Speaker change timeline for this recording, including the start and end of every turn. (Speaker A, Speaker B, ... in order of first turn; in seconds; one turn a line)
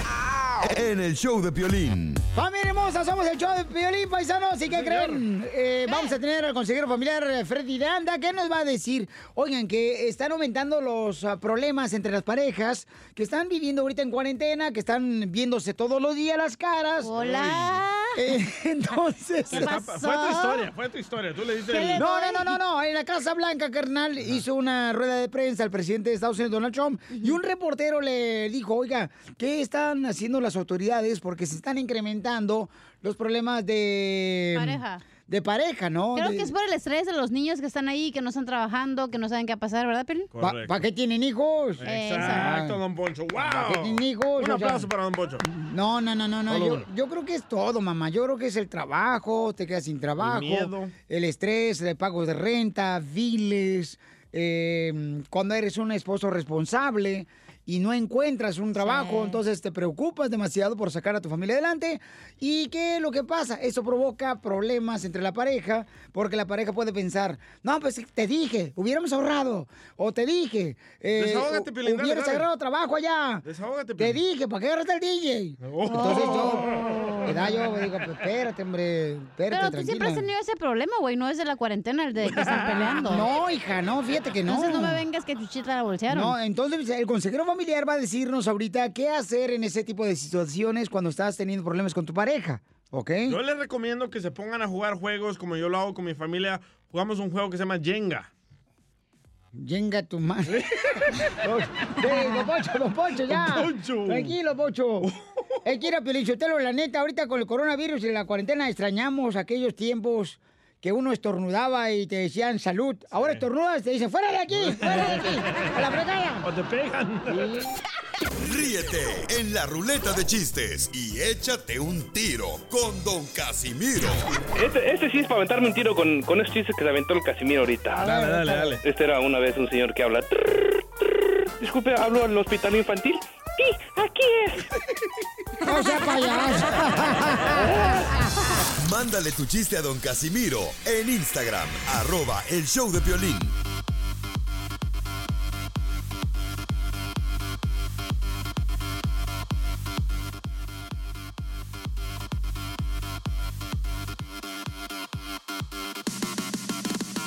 Speaker A: 0.6-2.2
Speaker B: 2.3-17.1
Speaker C: 4.7-5.2
Speaker D: 5.9-6.2
Speaker D: 17.0-18.2
Speaker C: 17.2-17.8
Speaker B: 18.2-19.7
Speaker D: 19.5-20.6
Speaker C: 19.5-22.0
Speaker D: 21.7-22.5
Speaker B: 22.0-36.5
Speaker D: 34.5-35.0
Speaker D: 36.1-40.3
Speaker C: 40.3-40.7
Speaker B: 40.4-42.8
Speaker C: 41.8-45.5
Speaker D: 41.9-42.5
Speaker B: 43.4-44.9
Speaker B: 45.4-73.4
Speaker C: 46.5-46.9
Speaker C: 50.2-50.9
Speaker D: 58.8-59.4
Speaker C: 71.2-72.5
Speaker C: 73.4-74.2
Speaker B: 74.0-76.7
Speaker C: 75.6-77.3
Speaker D: 75.9-76.4
Speaker B: 77.2-80.2
Speaker D: 79.5-83.3
Speaker C: 82.3-82.8
Speaker B: 83.0-85.0
Speaker D: 84.5-86.3
Speaker B: 86.1-93.4
Speaker C: 93.3-98.3
Speaker B: 99.6-100.6
Speaker C: 100.5-101.0
Speaker B: 101.4-105.1
Speaker C: 103.3-104.3
Speaker C: 105.0-105.4
Speaker B: 105.7-116.5
Speaker C: 113.1-113.4
Speaker C: 114.5-115.7
Speaker C: 116.4-117.6
Speaker B: 117.3-117.7
Speaker A: 118.4-124.3
Speaker E: 124.6-128.3
Speaker C: 128.0-128.8
Speaker B: 128.1-128.7
Speaker E: 128.8-130.8
Speaker E: 131.6-134.6
Speaker B: 135.6-137.9
Speaker A: 138.8-143.6